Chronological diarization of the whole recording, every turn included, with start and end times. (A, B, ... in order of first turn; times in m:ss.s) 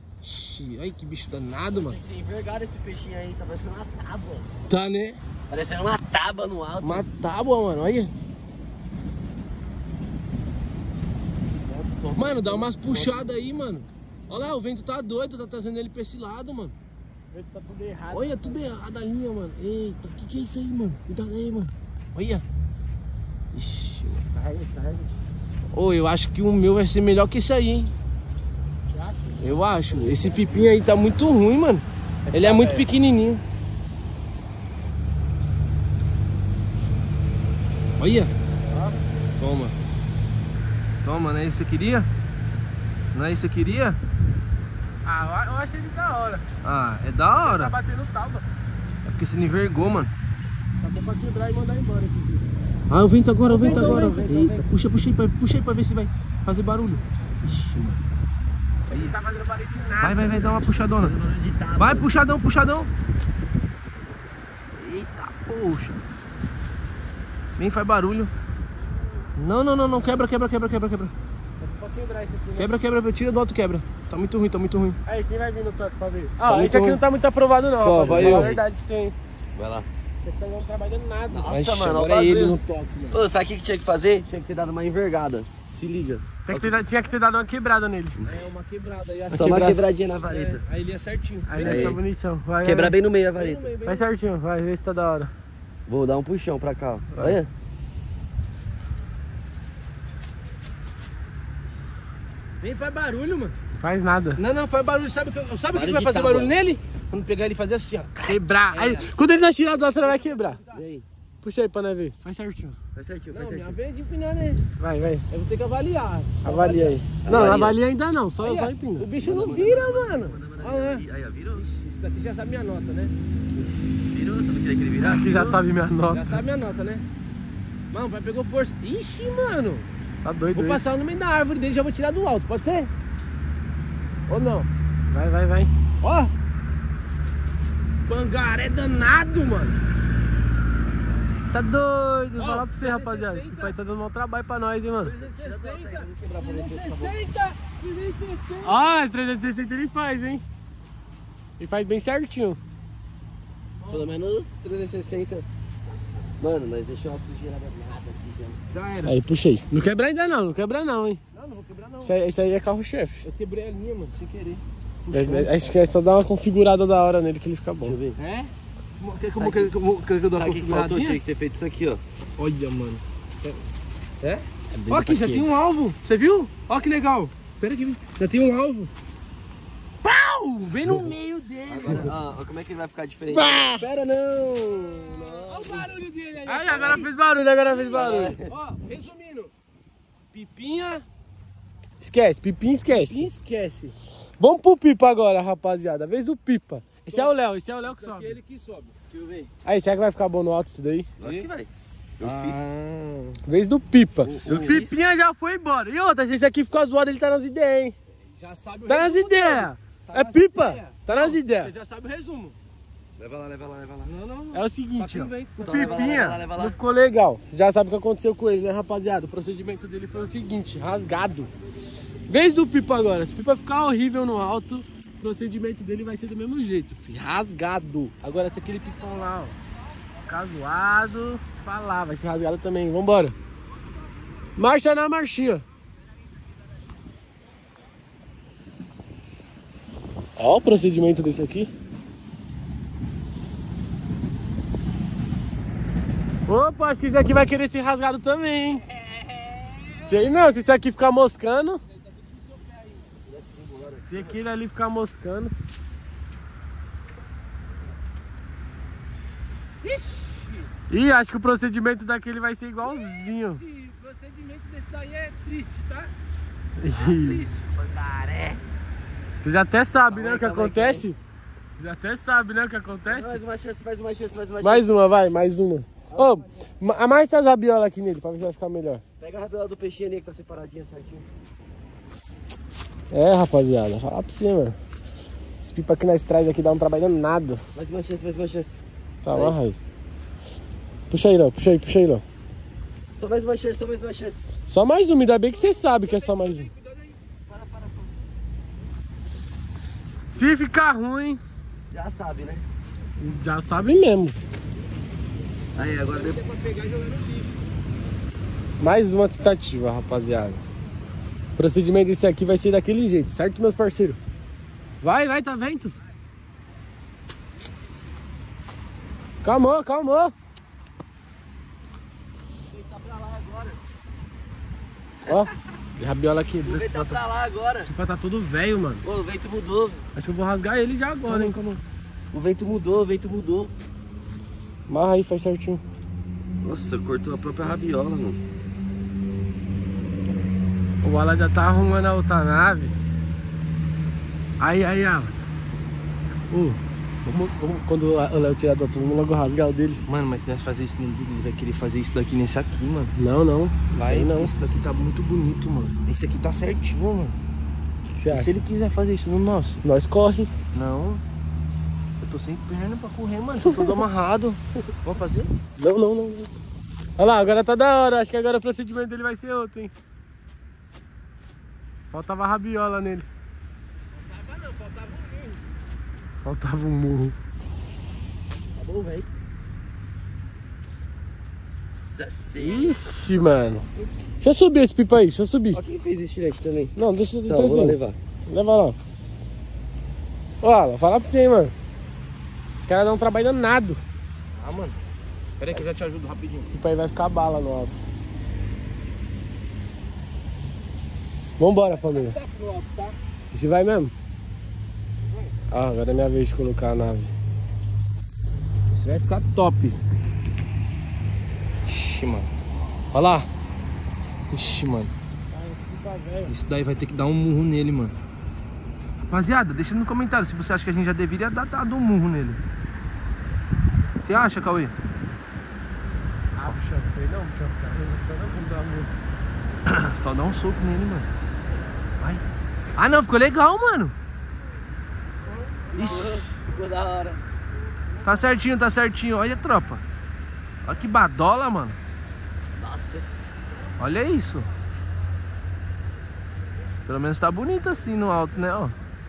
0:00.2-0:02.0 A
0:01.8-0:04.5 B
0:04.7-0:05.2 A
0:05.5-0:07.1 B
0:06.8-0:08.1 A
0:11.6-0:13.2 B
0:12.1-0:16.8 A
0:17.3-0:18.7 C
0:18.1-0:22.4 A
0:23.5-0:24.2 A
0:24.3-0:25.1 C
0:25.7-0:27.9 A
0:28.9-0:29.6 C
0:29.4-0:33.4 A
0:32.3-0:32.9 C
0:38.0-0:38.3 A
0:39.4-0:39.8 A
0:41.0-0:42.1 A
0:43.1-0:44.0 A
0:45.0-0:46.4 C
0:46.6-0:47.8 A
0:47.3-0:48.4 C
0:49.0-0:50.1 A
0:50.8-0:52.5 C
0:52.9-0:58.0 A
0:53.5-0:54.7 C
0:58.9-1:00.5 C
0:58.9-0:59.2 A
1:00.0-1:01.2 A
1:01.0-1:02.1 B
1:01.8-1:02.9 A
1:04.8-1:06.0 A
1:07.6-1:08.3 A
1:09.4-1:11.1 A
1:11.6-1:12.7 C
1:12.6-1:15.0 A
1:15.1-1:19.2 C
1:16.4-1:17.0 A
1:17.8-1:18.5 A
1:18.1-1:18.6 B
1:19.6-1:19.9 B
1:20.2-1:21.6 C
1:21.3-1:22.6 B
1:21.5-1:23.2 A
1:23.1-1:26.8 B
1:26.5-1:28.2 C
1:28.2-1:32.0 A
1:29.3-1:29.8 C
1:29.3-1:30.6 B
1:31.5-1:32.9 C
1:31.6-1:32.0 B
1:32.6-1:33.7 B
1:33.4-1:34.1 A
1:33.8-1:35.3 C
1:35.9-1:37.5 B
1:42.6-1:43.6 A
1:43.8-1:44.4 C
1:44.4-1:49.1 A
1:45.7-1:46.5 B
1:48.2-1:50.6 C
1:49.7-1:50.8 A
1:50.7-1:51.0 B
1:51.4-1:52.8 C
1:53.0-1:53.8 B
1:53.3-1:54.6 A
1:54.8-1:55.2 C
1:55.3-1:57.0 A
1:56.4-1:59.1 C
1:57.2-1:57.8 B
1:58.4-2:01.0 A
1:59.2-2:01.7 B
2:01.6-2:03.1 A
2:04.0-2:05.5 B
2:05.0-2:06.4 C
2:05.3-2:05.6 A
2:06.1-2:07.0 A
2:07.9-2:09.9 A
2:10.2-2:10.8 C
2:10.5-2:12.9 A
2:14.3-2:14.7 A
2:15.1-2:15.7 C
2:16.0-2:16.3 A
2:18.1-2:19.8 A
2:21.5-2:25.2 C
2:22.4-2:23.7 A
2:25.0-2:28.9 A
2:25.2-2:27.2 B
2:28.6-2:30.4 C
2:31.6-2:32.6 C
2:33.8-2:34.1 A
2:33.9-2:35.4 B
2:36.4-2:38.6 B
2:38.7-2:39.2 A
2:39.0-2:41.2 C
2:41.3-2:42.1 A
2:42.0-2:43.3 C
2:43.2-2:45.9 A
2:45.1-2:48.0 C
2:47.8-2:48.2 B
2:48.2-2:51.2 A
2:49.4-2:49.7 B
2:50.4-2:52.0 B
2:52.4-2:53.6 A
2:54.2-2:58.9 A
2:54.7-2:55.5 B
3:00.0-3:02.1 A
3:01.7-3:05.9 B
3:03.3-3:03.8 C
3:05.3-3:07.1 A
3:06.5-3:08.4 C
3:06.7-3:07.0 B
3:07.7-3:09.5 A
3:07.9-3:08.5 B
3:10.3-3:11.0 A
3:12.0-3:13.3 C
3:12.9-3:14.0 A
3:14.4-3:18.3 C
3:17.1-3:19.0 A
3:19.1-3:19.5 B
3:19.6-3:21.1 C
3:21.2-3:22.6 B
3:21.2-3:21.5 A
3:22.2-3:23.4 A
3:23.5-3:28.0 C
3:24.2-3:25.0 A
3:24.5-3:24.9 B
3:28.3-3:32.6 A
3:28.9-3:31.7 C
3:33.2-3:34.2 B
3:34.1-3:36.4 A
3:34.5-3:41.5 C
3:35.6-3:36.8 B
3:42.3-3:49.5 C
3:48.6-3:49.5 A
3:50.3-3:53.4 C
3:54.6-3:55.6 C
4:00.4-4:01.7 C
4:06.5-4:08.8 C
4:10.0-4:11.8 C
4:11.9-4:13.1 A
4:13.3-4:14.4 B
4:14.0-4:15.5 C
4:19.8-4:20.7 A
4:20.9-4:23.6 C
4:22.8-4:26.1 A
4:26.8-4:27.4 C
4:26.9-4:28.6 B
4:29.4-4:31.2 C
4:30.1-4:31.1 B
4:31.8-4:33.4 C
4:33.1-4:34.8 B
4:34.6-4:39.0 C
4:36.1-4:36.5 B
4:39.2-4:41.3 B
4:43.1-4:44.8 C
4:45.6-4:47.6 C
4:47.8-4:48.8 B
4:49.2-4:49.8 C
4:51.1-4:52.2 C
4:53.2-4:54.4 B
4:54.7-4:56.7 C
4:55.5-4:57.2 A
4:57.5-4:58.3 B
5:00.3-5:01.4 C
5:01.9-5:02.6 B
5:03.2-5:04.4 C
5:05.8-5:06.4 B
5:05.8-5:07.7 A
5:08.8-5:10.6 C
5:11.6-5:14.2 C
5:15.0-5:16.0 C
5:19.4-5:20.3 C
5:22.7-5:23.8 B
5:25.3-5:27.2 C
5:26.6-5:27.9 B
5:27.9-5:29.0 C
5:29.0-5:30.0 B
5:30.2-5:31.6 C
5:31.3-5:31.8 A
5:32.3-5:33.7 B
5:34.9-5:35.8 C
5:36.6-5:38.4 B
5:41.0-5:43.0 C
5:44.6-5:45.3 C
5:46.5-5:50.0 C
5:50.1-5:53.1 A
5:53.2-5:54.5 C
5:54.0-5:57.4 A
5:58.1-5:58.5 C
5:58.3-5:59.8 A
5:59.8-6:00.5 C
6:00.7-6:01.2 A
6:02.2-6:05.5 A
6:03.6-6:04.0 C
6:05.8-6:06.5 C
6:07.2-6:09.9 C
6:12.1-6:13.3 C
6:14.3-6:15.6 A
6:16.4-6:17.4 C
6:18.8-6:19.3 B
6:21.9-6:23.0 B
6:22.6-6:23.9 C
6:24.4-6:25.8 C
6:25.7-6:26.9 B
6:27.0-6:28.0 C
6:27.5-6:28.2 B
6:28.5-6:29.0 C
6:30.6-6:31.7 C
6:32.8-6:34.0 C
6:34.6-6:35.0 A
6:35.6-6:36.7 A
6:36.7-6:38.0 C
6:41.6-6:42.4 C
6:41.9-6:43.2 A
6:43.5-6:44.1 C
6:45.7-6:47.3 C
6:48.9-6:50.0 A
6:51.8-6:52.5 A
6:53.1-6:53.5 A
6:54.5-6:55.1 A
6:55.5-6:56.5 C
6:56.5-6:58.2 A
6:59.3-7:02.6 A
7:04.2-7:05.0 A
7:06.6-7:09.1 C
7:09.8-7:11.3 A
7:13.0-7:14.2 A
7:15.9-7:16.5 A
7:15.9-7:17.4 B
7:18.2-7:20.0 A
7:20.8-7:22.0 A
7:22.8-7:23.3 B
7:24.0-7:24.7 A
7:27.1-7:29.0 A